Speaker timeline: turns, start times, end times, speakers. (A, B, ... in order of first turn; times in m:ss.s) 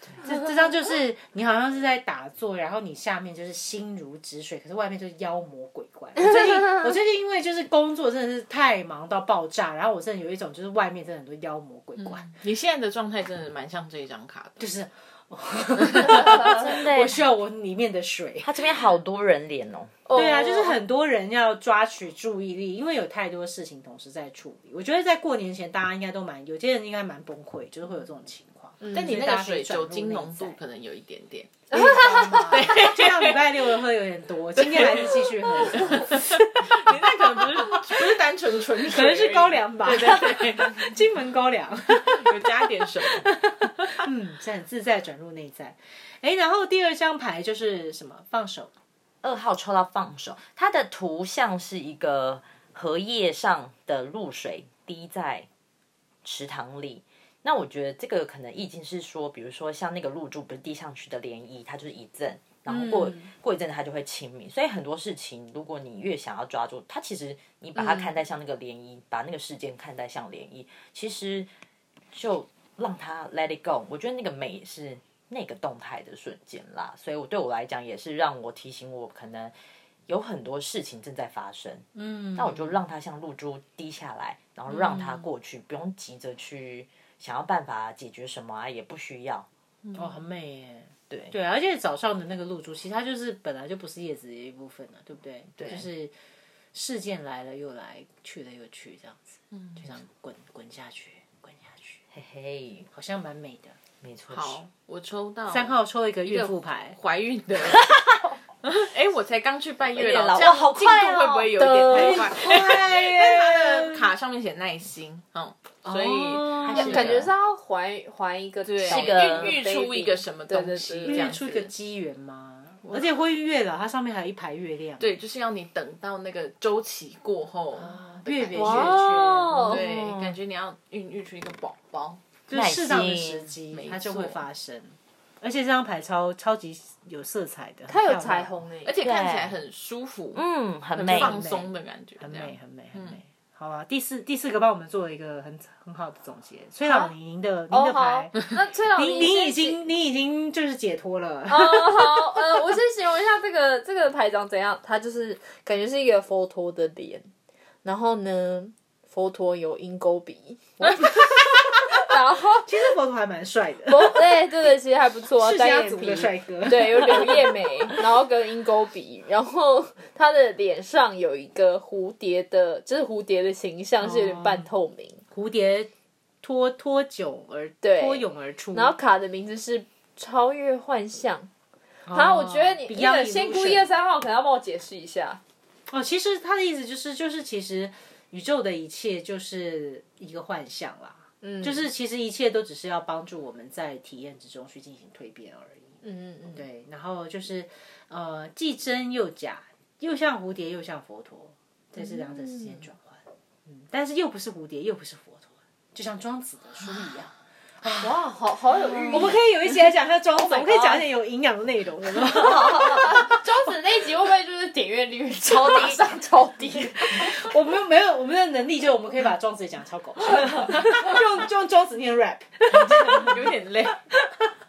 0:00.2-0:12.3 A
0:12.0-0:14.6 B
0:14.6-0:18.7 A
0:16.2-0:17.2 C
0:18.4-0:20.0 C
0:20.1-0:20.8 D
0:20.1-0:30.6 A
0:28.9-0:31.7 B
0:31.7-0:32.6 D
0:31.7-0:38.2 A
0:32.3-0:33.8 B
0:34.6-0:41.0 B
0:38.8-0:48.7 A
0:42.1-0:44.0 B
0:49.2-0:55.5 C
0:56.2-1:11.5 C
1:02.7-1:03.3 A
1:12.1-1:19.5 C
1:20.1-1:29.5 C
1:22.0-1:22.8 A
1:24.7-1:25.2 A
1:29.8-1:30.2 B
1:30.0-1:36.1 A
1:35.6-1:35.9 C
1:36.7-1:42.0 A
1:39.5-1:39.8 B
1:42.1-1:42.9 C
1:42.9-1:43.8 A
1:44.0-1:44.6 C
1:44.3-1:47.9 B
1:45.5-1:47.0 A
1:47.7-1:48.3 C
1:48.6-1:57.0 B
1:49.9-1:52.6 C
1:51.9-1:54.1 A
1:55.8-1:57.2 A
1:56.6-1:57.3 C
1:56.7-2:01.4 D
1:58.6-2:01.7 B
1:58.8-1:59.6 C
2:01.1-2:05.1 A
2:02.8-2:03.2 B
2:05.0-2:09.0 B
2:07.7-2:09.6 A
2:08.6-2:09.8 D
2:09.0-2:10.4 C
2:09.7-2:12.2 B
2:12.5-2:18.5 A
2:12.5-2:13.6 C
2:13.7-2:14.4 B
2:17.9-2:18.9 D
2:18.8-2:20.4 B
2:19.0-2:19.6 C
2:20.3-2:21.4 C
2:20.9-2:23.2 B
2:21.1-2:32.6 A
2:26.8-2:27.1 D
2:27.7-2:29.8 D
2:31.5-2:37.3 D
2:37.8-2:42.7 D
2:42.5-2:44.7 A
2:43.9-2:55.2 D
2:45.4-2:48.0 A
2:54.0-2:54.7 A
2:55.3-2:55.9 A
2:56.4-2:59.0 A
2:57.8-3:01.5 D
3:02.1-3:03.9 A
3:02.1-3:05.4 D
3:05.9-3:28.2 A
3:11.4-3:11.9 D
3:16.0-3:16.6 D
3:22.0-3:22.9 D
3:28.0-3:29.4 D
3:28.9-3:29.4 C
3:29.1-3:33.3 A
3:30.3-3:31.1 C
3:32.1-3:33.1 C
3:32.8-3:37.3 D
3:35.4-3:36.3 C
3:37.0-3:43.5 A
3:42.7-3:44.0 B
3:44.1-3:44.5 A